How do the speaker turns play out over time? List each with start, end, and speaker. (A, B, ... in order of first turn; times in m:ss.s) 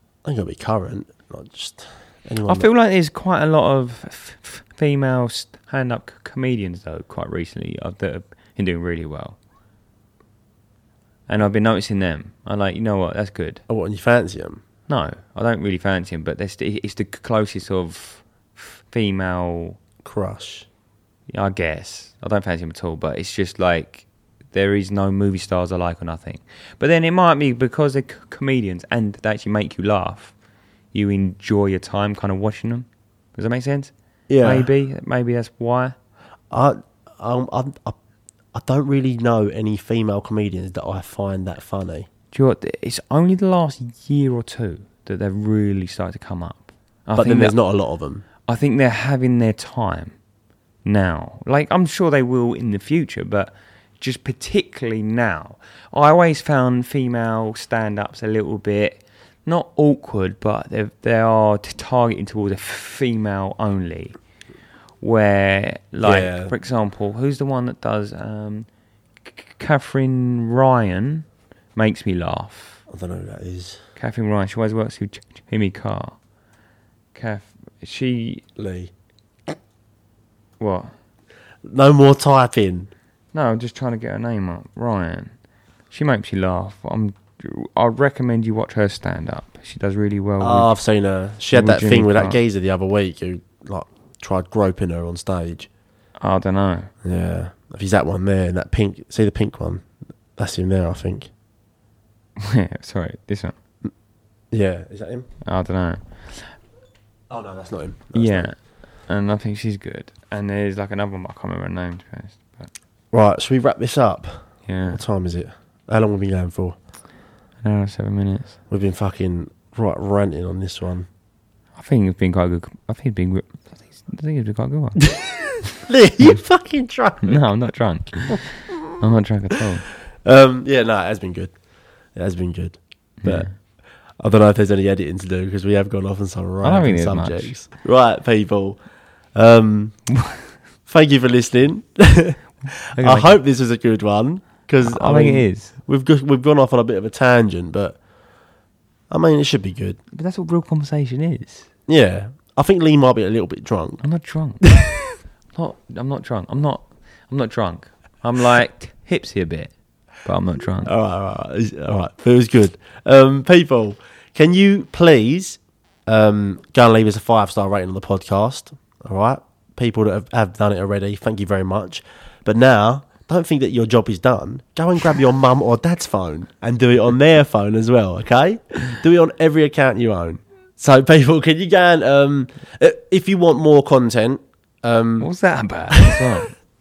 0:00.2-0:02.7 A
0:02.5-0:09.4 B
0:11.3-0:13.6 B
0:13.7-0:14.6 A
0:14.9-0:19.8 B
0:20.0-0:20.7 A
0:21.3-0:30.3 B
0:30.9-0:36.0 B
0:34.3-0:34.7 A
0:36.5-0:38.0 A
0:38.5-0:42.1 A
0:42.3-0:47.5 B
0:47.2-0:48.2 A
0:48.5-0:50.1 B
0:50.8-1:04.2 B
1:05.0-1:08.7 B
1:06.0-1:06.5 A
1:09.2-1:12.8 B
1:12.9-1:13.8 A
1:14.0-1:16.2 B
1:17.1-1:18.4 B
1:18.6-1:18.9 A
1:20.6-1:20.9 B
1:21.6-1:22.9 A
1:23.3-1:25.3 B
1:25.9-1:30.7 B
1:30.4-1:35.7 A
1:31.5-1:32.4 B
1:36.2-1:36.9 B
1:37.0-1:41.3 A
1:42.4-1:43.5 B
1:44.5-1:45.3 A
1:45.4-1:46.4 B
1:47.3-1:48.5 A
1:48.1-1:48.6 B
1:49.1-1:52.7 B
1:53.1-1:56.8 A
1:54.7-1:55.0 B
1:57.6-1:58.5 B
1:58.7-2:01.1 A
2:01.8-2:05.1 B
2:05.2-2:07.4 A
2:07.2-2:09.8 B
2:10.2-2:11.5 A
2:12.1-2:13.5 A
2:13.2-2:13.5 B
2:14.2-2:18.8 A
2:16.6-2:17.5 B
2:19.4-2:20.0 A
2:20.1-2:20.4 B
2:20.9-2:22.4 A
2:22.9-2:23.4 B
2:23.0-2:28.0 A
2:24.8-2:25.7 B
2:29.1-2:30.0 A
2:30.1-2:31.7 B
2:31.9-2:34.0 A
2:34.0-2:34.6 B
2:34.6-2:35.2 A
2:35.5-2:39.7 B
2:40.2-2:40.9 B
2:40.8-3:05.3 A
3:05.2-3:06.5 B
3:05.9-3:06.3 A